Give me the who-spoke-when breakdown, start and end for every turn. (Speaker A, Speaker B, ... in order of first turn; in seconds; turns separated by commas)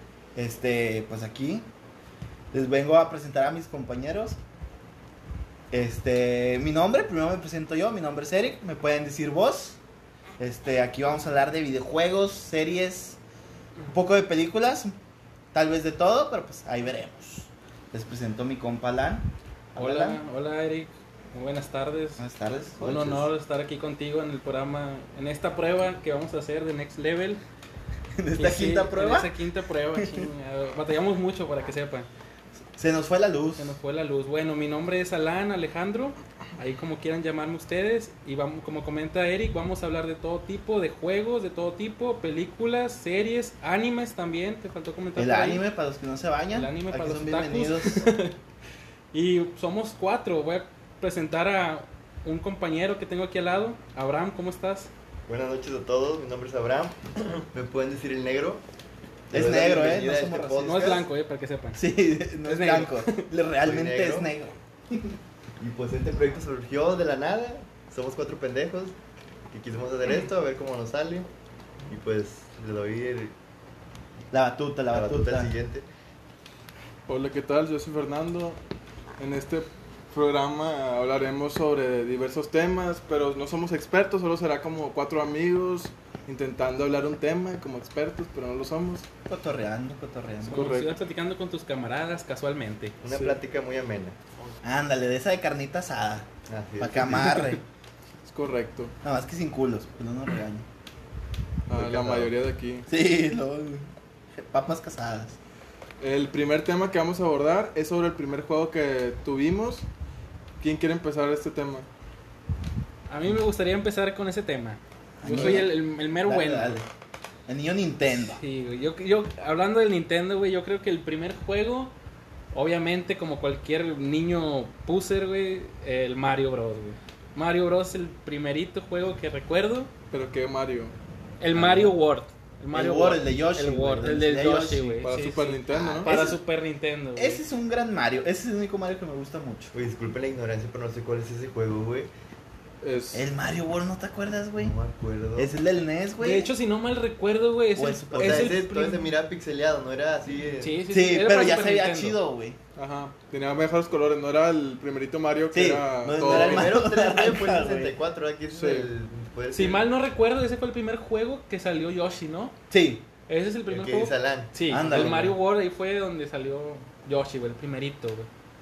Speaker A: 0.3-1.6, Speaker A: 2.5-4.4, Speaker A: 5.7-9.8, Speaker A: 10.4-13.2, Speaker A: 13.9-14.9, Speaker A: 15.5-20.2, Speaker B: 19.8-22.2, Speaker A: 22.2-23.3, Speaker B: 22.8-27.4, Speaker A: 28.1-29.3, Speaker B: 28.4-32.1, Speaker A: 29.9-30.3, Speaker A: 32.8-33.8, Speaker B: 33.6-45.6, Speaker A: 45.1-48.1, Speaker B: 46.5-48.3, Speaker B: 49.1-54.9, Speaker C: 55.3-58.6, Speaker C: 59.3-61.1, Speaker A: 59.3-61.0, Speaker B: 60.6-63.3, Speaker A: 61.7-65.2, Speaker C: 63.6-64.3, Speaker C: 65.6-68.9, Speaker C: 69.5-71.3, Speaker C: 71.9-73.3, Speaker A: 74.3-75.5, Speaker C: 74.9-75.8, Speaker D: 77.1-78.6, Speaker D: 79.2-89.0, Speaker A: 89.3-90.7, Speaker B: 90.4-93.0, Speaker D: 90.5-90.9, Speaker C: 93.0-94.2, Speaker D: 93.1-93.4, Speaker A: 94.6-96.3, Speaker C: 96.5-97.5, Speaker A: 96.8-97.6, Speaker D: 97.1-97.4, Speaker D: 98.2-98.9, Speaker A: 99.0-100.6, Speaker D: 101.7-102.9, Speaker C: 101.7-102.3, Speaker A: 102.9-105.4, Speaker D: 106.0-109.8, Speaker D: 110.6-111.8, Speaker B: 113.1-116.8, Speaker A: 115.2-116.8, Speaker A: 117.5-118.4, Speaker B: 118.0-121.9, Speaker B: 122.5-129.9, Speaker D: 130.1-130.9, Speaker B: 131.4-137.4, Speaker A: 131.5-131.9, Speaker A: 132.7-135.0, Speaker D: 135.0-136.1, Speaker A: 135.7-136.4, Speaker A: 137.2-139.7, Speaker C: 139.7-142.1, Speaker D: 142.8-143.3, Speaker A: 143.1-144.7, Speaker C: 144.6-145.5, Speaker A: 145.3-146.5, Speaker B: 146.2-149.0, Speaker A: 147.7-148.6, Speaker C: 148.1-150.8, Speaker B: 150.6-152.2, Speaker A: 150.9-152.6, Speaker D: 152.8-156.7, Speaker A: 155.5-157.9, Speaker C: 156.2-159.8, Speaker D: 158.5-158.9, Speaker B: 159.5-162.6, Speaker A: 162.7-163.0, Speaker B: 163.3-168.3, Speaker C: 163.7-164.5, Speaker A: 164.7-165.4